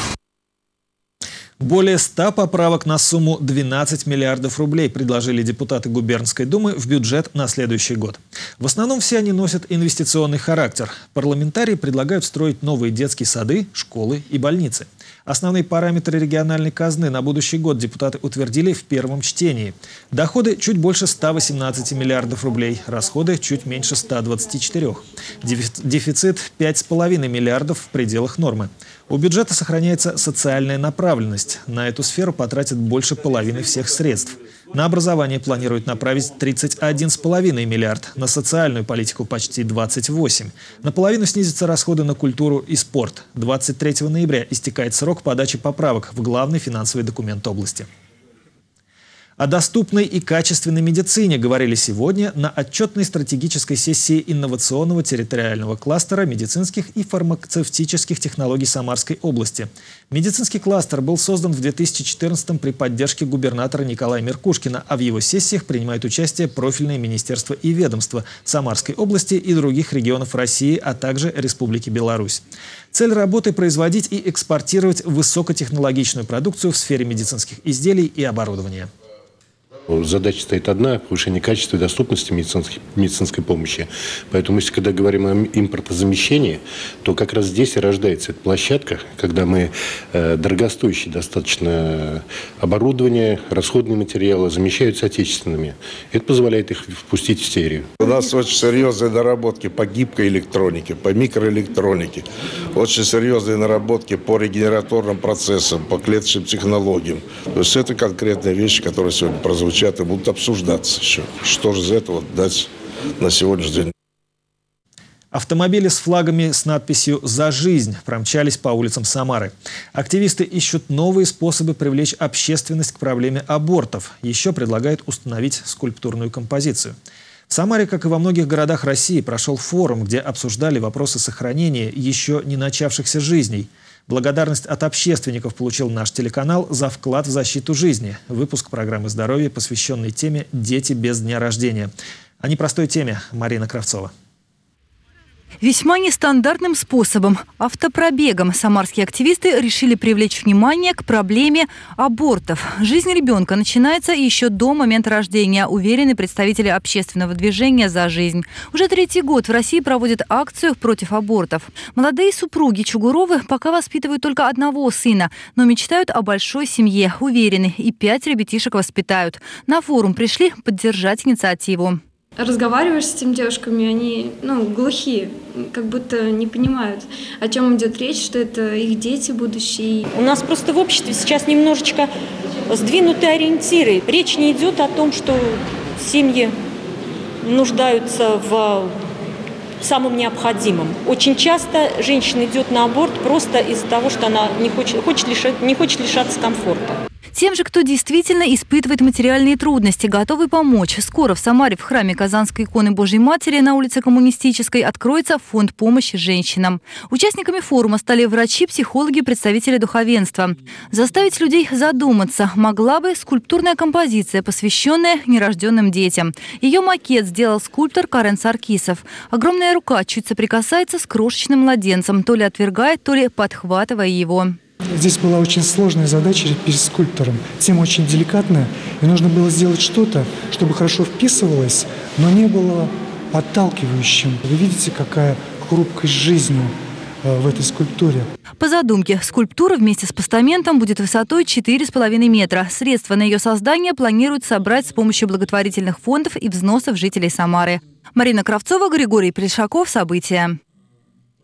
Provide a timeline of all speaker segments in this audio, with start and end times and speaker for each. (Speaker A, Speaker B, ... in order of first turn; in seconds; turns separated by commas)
Speaker A: 1.6-47.9, Speaker A: 49.4-78.9, Speaker B: 79.9-97.9, Speaker C: 98.0-113.9, Speaker A: 115.3-127.0, Speaker A: 127.5-144.1, Speaker D: 145.6-172.0, Speaker E: 172.4-180.0, Speaker F: 180.1-182.1, Speaker F: 182.7-186.5, Speaker F: 187.4-189.0, Speaker F: 189.8-197.0, Speaker D: 197.3-224.6, Speaker G: 225.1-232.8, Speaker G: 233.4-236.7, Speaker G: 237.3-238.2, Speaker D: 238.6-250.6